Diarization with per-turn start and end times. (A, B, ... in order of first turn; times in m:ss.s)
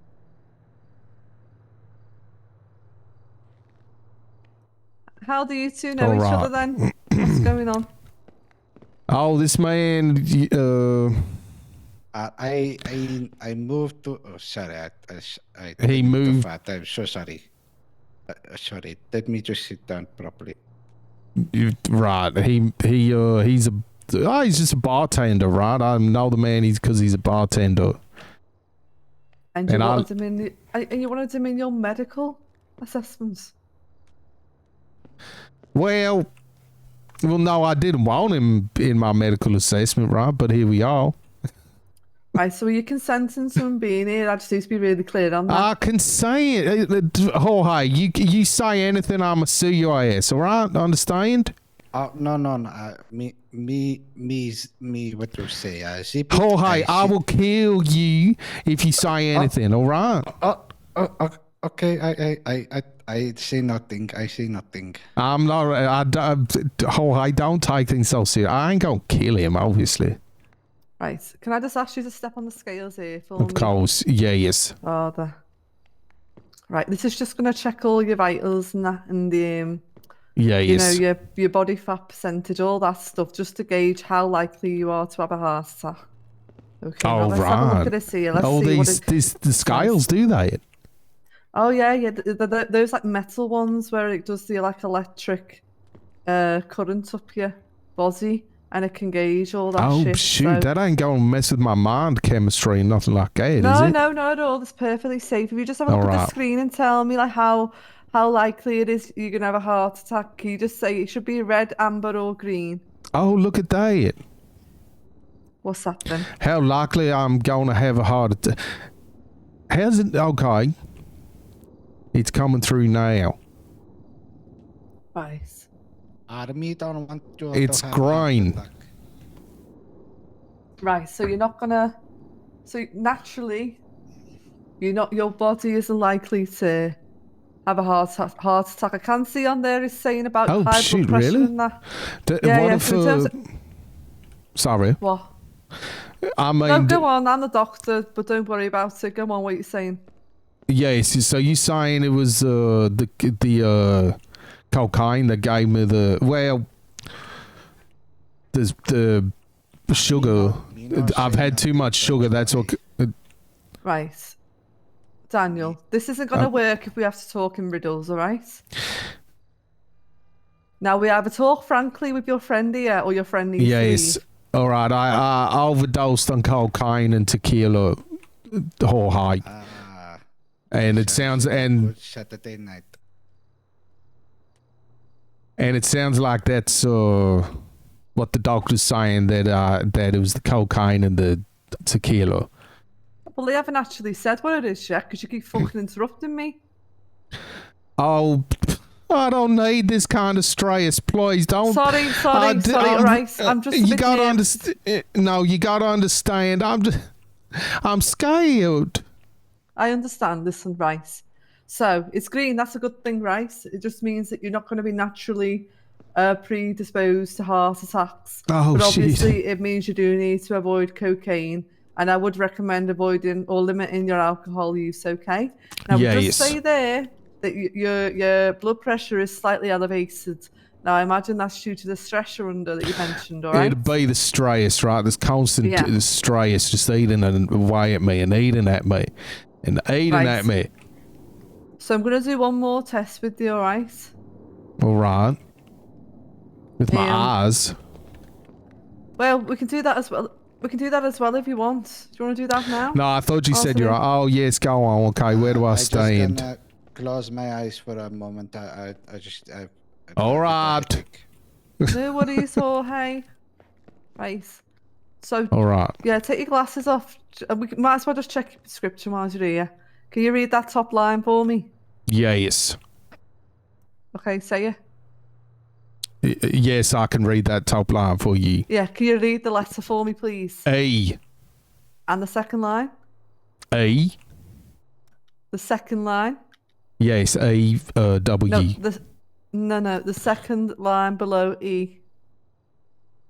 0:05.2-0:07.9 A
0:06.0-0:07.4 B
0:09.1-0:11.2 B
0:12.1-0:17.5 C
0:15.8-0:16.5 B
0:18.3-0:20.6 C
0:21.4-0:28.0 B
0:29.6-0:33.5 A
0:29.7-0:30.1 B
0:35.7-0:36.3 B
0:37.2-0:41.2 B
0:42.4-0:45.7 A
0:45.5-0:51.5 B
0:51.9-0:57.1 C
0:56.3-1:00.3 B
1:00.3-1:05.0 C
1:05.2-1:10.2 B
1:11.0-1:13.7 A
1:13.4-1:14.8 B
1:14.8-1:15.4 A
1:16.7-1:19.8 A
1:20.4-1:21.0 B
1:20.7-1:26.0 A
1:26.8-1:29.1 A
1:27.0-1:30.6 B
1:29.6-1:30.0 A
1:31.5-1:35.6 A
1:36.3-1:40.7 A
1:39.8-1:44.0 B
1:43.6-1:52.8 A
1:45.9-1:46.3 B
1:53.2-1:54.2 B
1:55.6-1:56.3 A
1:56.4-1:58.6 B
1:59.7-2:00.7 B
2:02.1-2:03.4 B
2:05.2-2:05.7 A
2:06.3-2:08.9 C
2:07.5-2:08.6 B
2:10.8-2:12.0 A
2:12.7-2:13.8 A
2:14.8-2:17.0 A
2:17.7-2:21.8 A
2:20.5-2:21.5 B
2:22.3-2:23.3 B
2:22.4-2:23.3 A
2:24.6-2:25.0 B
2:25.0-2:25.3 A
2:26.4-2:27.0 B
2:26.6-2:30.0 A
2:30.7-2:34.2 B
2:34.7-2:36.6 B
2:38.5-2:39.3 B
2:39.9-2:43.1 B
2:39.9-2:42.8 C
2:43.8-2:44.4 A
2:45.3-2:48.6 A
2:50.8-2:54.2 A
2:53.6-2:59.4 B
2:59.4-3:00.2 C
3:00.7-3:01.9 B
3:00.8-3:02.9 C
3:05.6-3:07.5 B
3:08.2-3:12.5 B
3:13.3-3:16.6 A
3:18.0-3:26.9 B
3:21.6-3:24.5 A
3:27.6-3:29.0 B
3:29.8-3:53.9 A
3:38.5-3:39.4 B
3:45.9-3:46.6 B
3:53.5-3:59.1 B
3:55.6-3:55.9 A
3:59.6-4:00.7 B
4:00.1-4:00.5 A
4:01.8-4:04.1 A
4:04.8-4:05.4 B
4:06.8-4:07.7 B
4:06.9-4:07.3 A
4:09.2-4:14.0 A
4:12.9-4:16.4 B
4:15.3-4:21.3 C
4:20.2-4:21.0 B
4:21.8-4:22.4 B
4:21.9-4:23.2 A
4:24.2-4:24.6 A
4:25.2-4:31.7 A
4:25.5-4:26.0 B
4:32.1-4:32.8 B
4:34.1-4:34.8 A
4:36.2-4:38.7 B
4:38.7-4:40.7 A
4:40.7-4:41.2 B
4:42.1-4:42.9 A
4:43.7-4:44.2 B
4:45.5-4:46.4 A
4:47.0-4:48.8 B
4:48.5-4:49.0 A
4:49.5-4:52.0 A